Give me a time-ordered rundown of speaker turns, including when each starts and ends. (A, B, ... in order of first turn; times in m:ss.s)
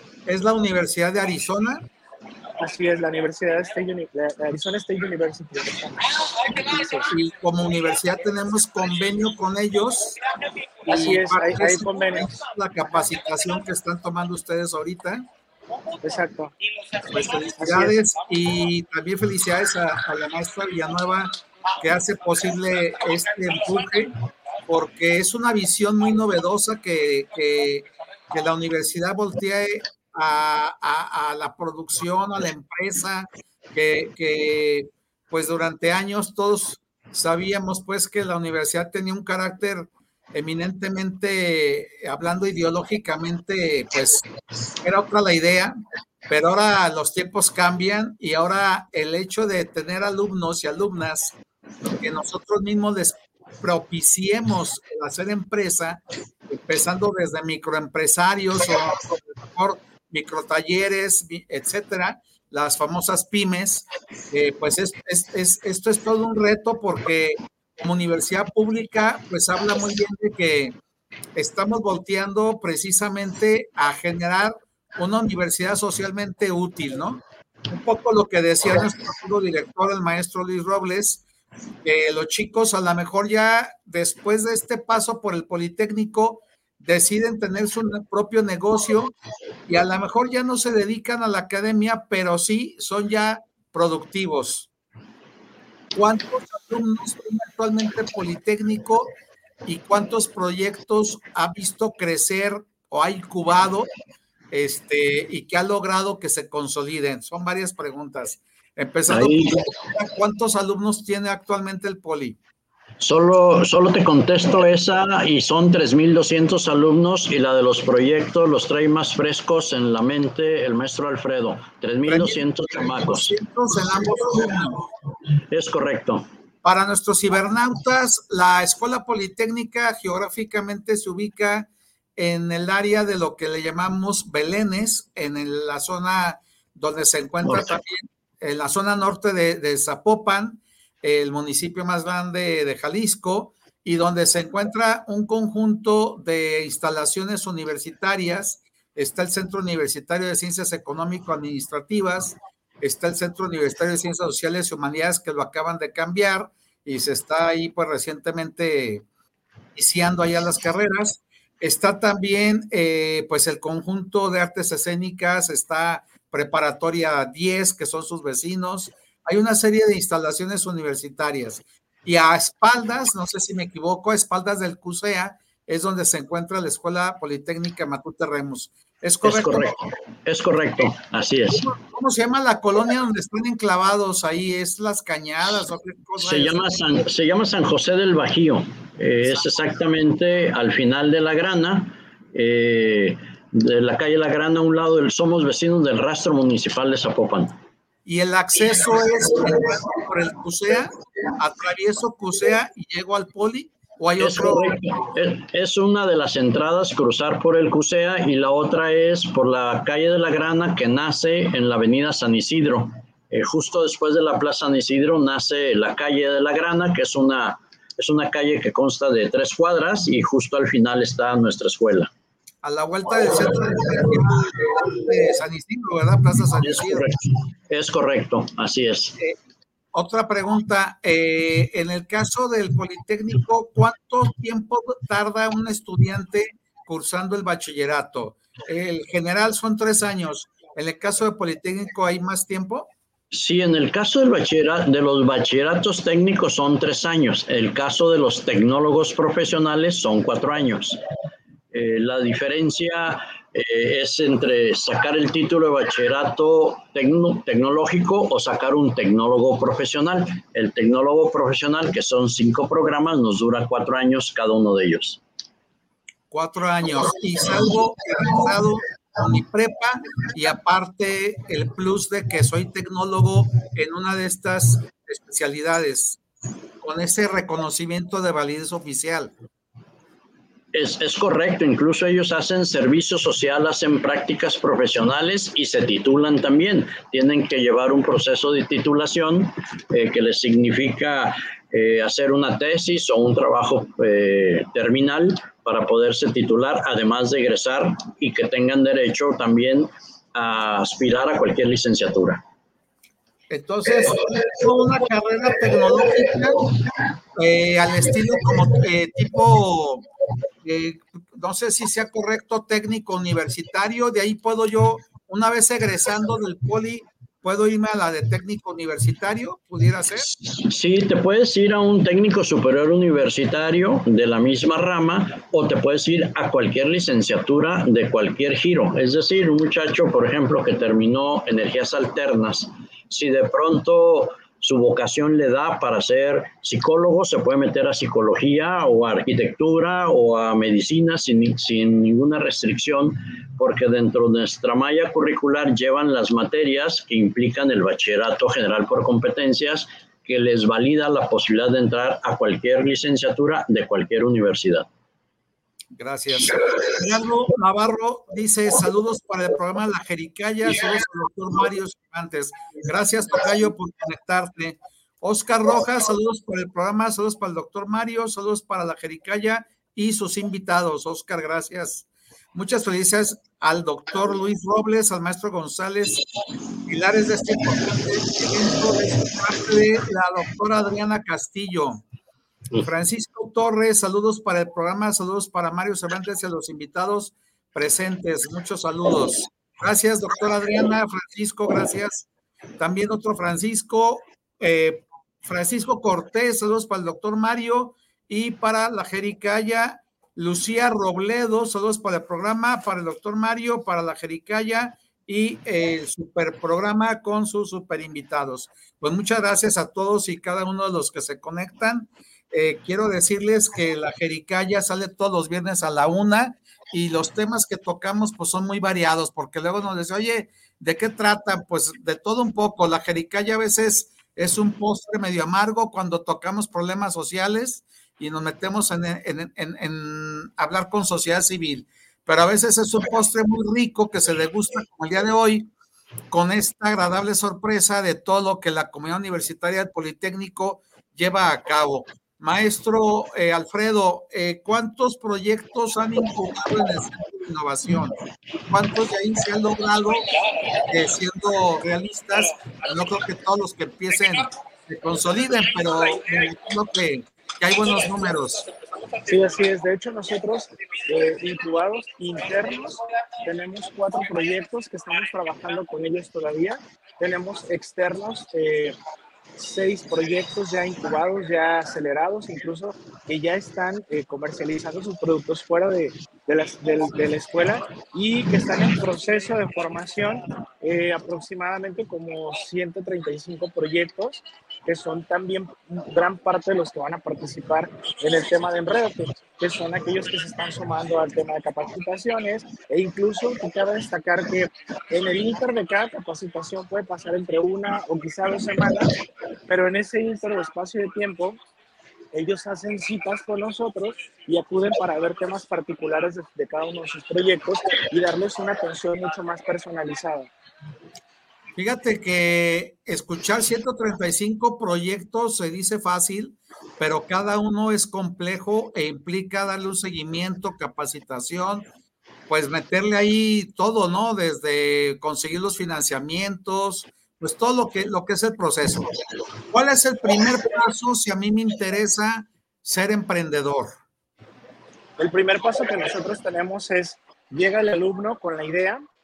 0:00.2-0:01.8 A
0:02.6-0:07.1 B
0:07.1-0:10.3 A
0:10.8-0:15.3 A
0:10.8-0:12.3 B
0:16.0-0:16.5 B
0:17.0-0:24.1 A
0:17.6-0:17.9 B
0:24.7-0:44.2 A
0:44.8-0:45.8 A
0:46.3-0:51.3 A
0:51.8-1:10.8 A
1:11.3-1:21.2 A
1:21.8-1:29.1 A
1:29.7-1:34.7 A
1:35.9-1:39.1 A
1:39.6-1:43.9 A
1:44.5-1:52.4 A
1:49.1-1:49.6 C
1:53.0-2:03.3 C
2:02.0-2:04.8 A
2:05.5-2:06.2 C
2:06.6-2:39.0 A
2:17.4-2:17.8 C
2:39.7-2:59.8 A
2:59.2-3:01.6 C
3:01.5-3:06.7 A
3:06.2-3:17.6 C
3:09.2-3:09.7 A
3:18.0-3:24.8 A
3:24.2-3:42.1 C
3:42.6-3:47.1 A
3:46.6-3:49.1 C
3:49.9-4:02.9 A
4:03.3-4:11.0 C
4:11.7-4:25.2 C
4:26.3-4:36.2 A
4:36.8-4:39.3 A
4:40.7-5:02.4 C
5:03.5-5:06.7 A
5:07.3-5:10.0 A
5:10.6-5:20.3 A
5:20.3-5:54.9 C
5:56.0-6:16.2 A
6:16.9-6:22.0 A
6:22.8-6:32.2 A
6:32.8-7:15.7 A
7:16.3-7:38.7 A
7:39.2-7:49.0 B
7:49.6-8:19.1 B
8:19.7-8:21.6 B
8:22.3-8:30.5 B
8:31.7-8:41.8 A
8:42.5-8:49.1 A
8:49.7-8:54.0 A
8:55.2-8:59.0 B